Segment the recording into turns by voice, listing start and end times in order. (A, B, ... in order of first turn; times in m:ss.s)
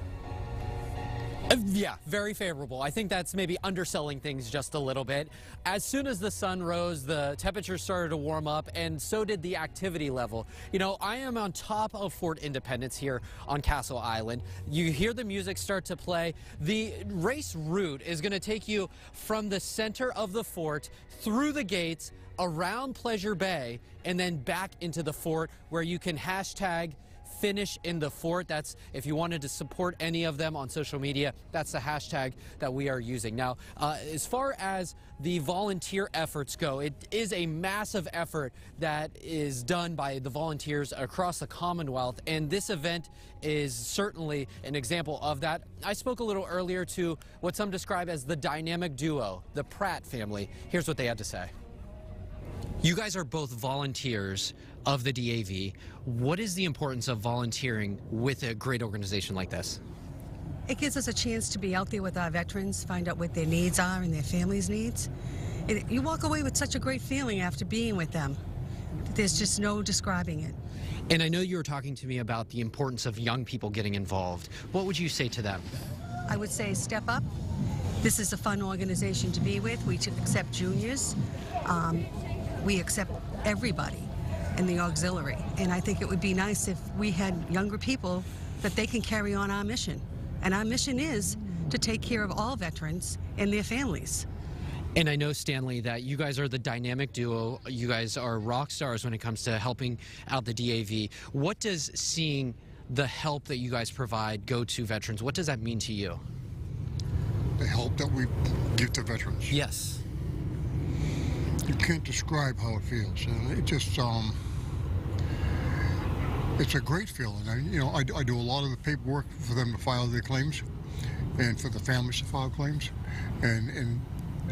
0:01.5-0:51.5 A
0:52.8-0:59.8 A
1:00.7-1:05.1 B
1:05.7-1:08.4 B
1:09.1-1:10.6 B
1:11.1-1:15.6 A
1:16.3-1:17.3 B
1:18.0-1:22.1 B
1:22.6-1:34.2 B
1:35.0-1:46.2 A
1:47.6-1:49.6 C
1:49.5-1:50.0 A
1:51.7-1:54.4 C
1:56.6-2:00.6 C
2:01.4-2:04.1 C